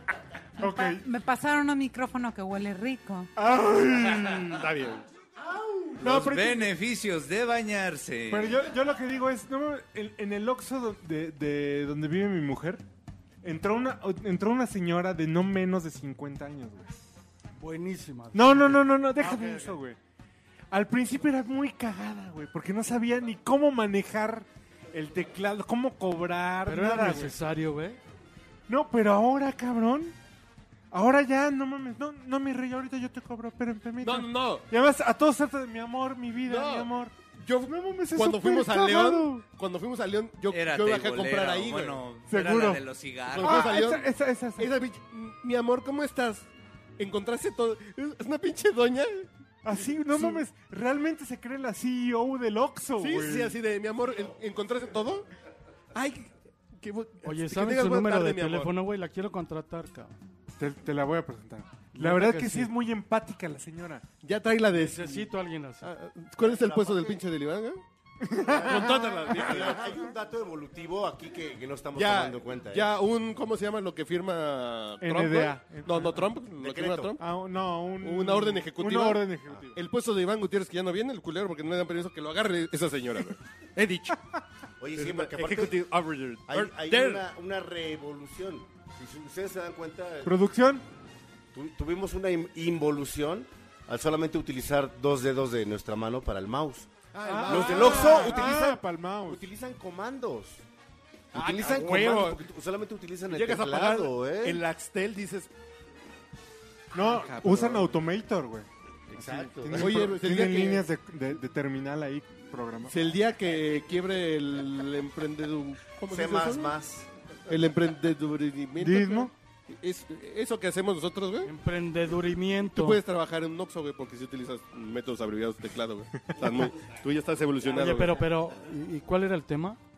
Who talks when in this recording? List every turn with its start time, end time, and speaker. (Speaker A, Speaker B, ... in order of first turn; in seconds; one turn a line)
Speaker A: 0.6-1.1
Speaker B: 0.6-3.3
Speaker A: 3.4-4.6
Speaker C: 4.6-5.0
Speaker D: 5.4-6.0
Speaker A: 6.0-6.7
Speaker E: 6.0-8.7
Speaker A: 8.3-12.8
Speaker A: 13.4-17.1
Speaker F: 17.6-19.0
Speaker A: 18.3-20.0
Speaker C: 19.2-19.8
Speaker A: 20.7-27.3
Speaker F: 26.6-28.0
Speaker A: 28.7-30.1
Speaker A: 30.9-39.5
Speaker C: 34.0-34.7
Speaker C: 36.4-42.0
Speaker E: 40.5-43.6
Speaker A: 42.2-42.8
Speaker C: 43.3-50.4
Speaker A: 43.4-44.7
Speaker A: 49.6-53.5
Speaker C: 53.0-55.3
Speaker C: 55.9-58.7
Speaker F: 57.2-60.2
Speaker A: 60.6-64.0
Speaker F: 62.0-62.7
Speaker C: 64.2-67.8
Speaker F: 64.8-65.9
Speaker D: 66.4-67.2
Speaker A: 68.2-69.4
Speaker D: 68.5-72.9
Speaker C: 68.6-70.0
Speaker C: 72.0-77.2
Speaker A: 75.0-76.3
Speaker D: 76.6-77.2
Speaker A: 77.2-79.8
Speaker C: 78.0-84.2
Speaker D: 84.8-85.8
Speaker C: 85.0-87.2
Speaker D: 86.5-90.4
Speaker A: 90.2-90.8
Speaker D: 91.5-96.9
Speaker C: 97.1-98.5
Speaker A: 97.3-99.5
Speaker D: 97.5-100.6
Speaker D: 101.3-104.6
Speaker C: 101.3-102.4
Speaker C: 103.3-105.5
Speaker A: 106.9-113.0
Speaker D: 107.1-107.9
Speaker D: 109.1-110.0
Speaker C: 109.7-110.9
Speaker C: 112.9-116.7
Speaker D: 116.1-117.1
Speaker C: 117.5-121.5
Speaker A: 118.8-119.3
Speaker F: 121.4-123.0
Speaker C: 122.7-128.2
Speaker A: 126.2-126.5
Speaker F: 127.7-129.8